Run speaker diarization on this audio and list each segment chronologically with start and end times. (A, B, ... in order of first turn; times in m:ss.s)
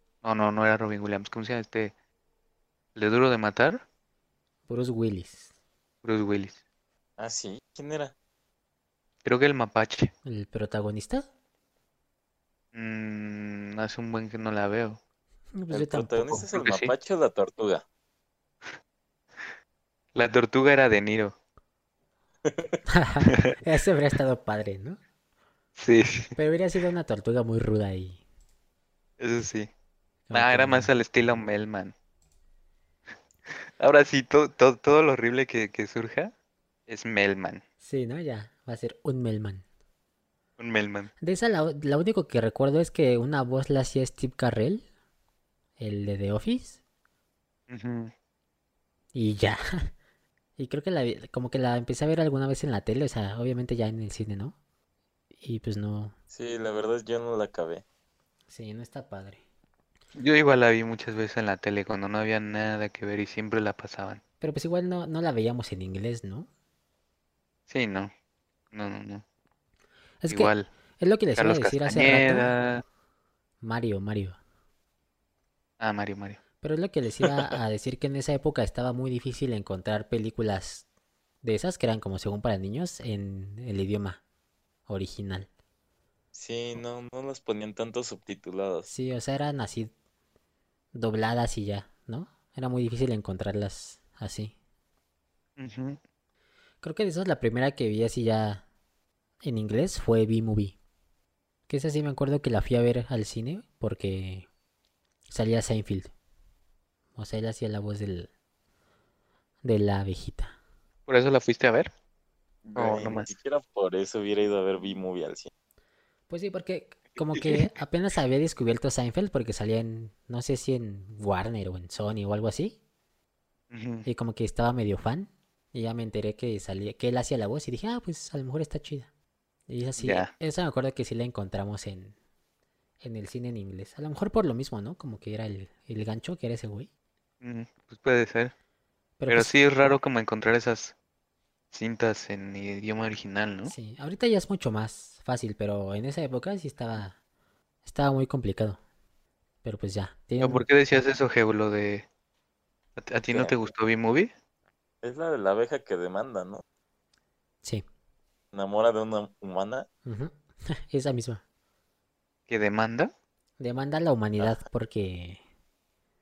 0:00.2-0:01.9 A
0:03.0-0:03.8 A
0:04.7-0:05.5 B
0:06.0-0:06.6 A
0:07.2-0:08.1 C
0:09.2-0:10.1 A
0:10.2-0:11.3 B
0:12.7-0:15.0 A
0:15.5-0:16.5 B
0:15.7-0:17.8 C
0:16.5-0:16.9 A
0:20.2-0:21.4 A
0:22.4-0:22.7 C
0:22.9-0:25.0 B
0:25.8-0:26.4 A
0:26.4-0:28.2 B
0:29.2-0:29.7 A
0:30.3-0:30.9 B
0:30.3-0:31.9 A
0:33.5-0:36.3 A
0:36.9-0:37.6 A
0:37.8-0:39.6 B
0:40.6-0:41.1 A
0:41.2-0:44.8 B
0:45.8-0:46.8 B
0:47.7-0:48.1 A
0:49.1-0:49.9 B
0:50.6-0:54.6 B
0:55.4-0:56.1 B
0:56.3-0:57.8 C
0:58.5-0:59.4 B
1:00.2-1:04.2 A
1:04.4-1:06.5 B
1:07.7-1:08.1 A
1:08.7-1:09.2 A
1:10.2-1:12.5 B
1:10.3-1:10.7 A
1:11.4-1:12.8 A
1:13.6-1:14.4 B
1:15.8-1:16.4 A
1:16.6-1:20.9 B
1:21.4-1:24.2 B
1:24.9-1:25.5 B
1:26.3-1:28.9 C
1:28.9-1:29.9 B
1:30.9-1:34.5 B
1:35.6-1:36.0 A
1:36.8-1:38.6 B
1:39.4-1:40.8 B
1:41.7-1:44.5 B
1:45.3-1:46.1 B
1:47.2-1:48.3 B
1:49.6-1:50.6 B
1:51.1-1:51.9 A
1:52.7-1:53.3 A
1:52.7-1:55.5 C
1:56.3-2:02.8 B
1:57.4-1:57.7 A
2:03.7-2:04.1 A
2:04.1-2:09.1 B
2:09.7-2:12.1 B
2:10.0-2:10.3 A
2:13.0-2:16.9 B
2:17.4-2:18.5 A
2:19.2-2:19.5 B
2:19.3-2:20.9 A
2:21.7-2:23.7 A
2:23.7-2:27.2 B
2:27.8-2:28.8 B
2:29.6-2:30.7 B
2:30.4-2:32.1 A
2:33.0-2:34.3 A
2:35.0-2:36.6 C
2:38.5-2:39.9 C
2:40.0-2:41.4 B
2:42.5-2:43.1 A
2:43.6-2:45.4 B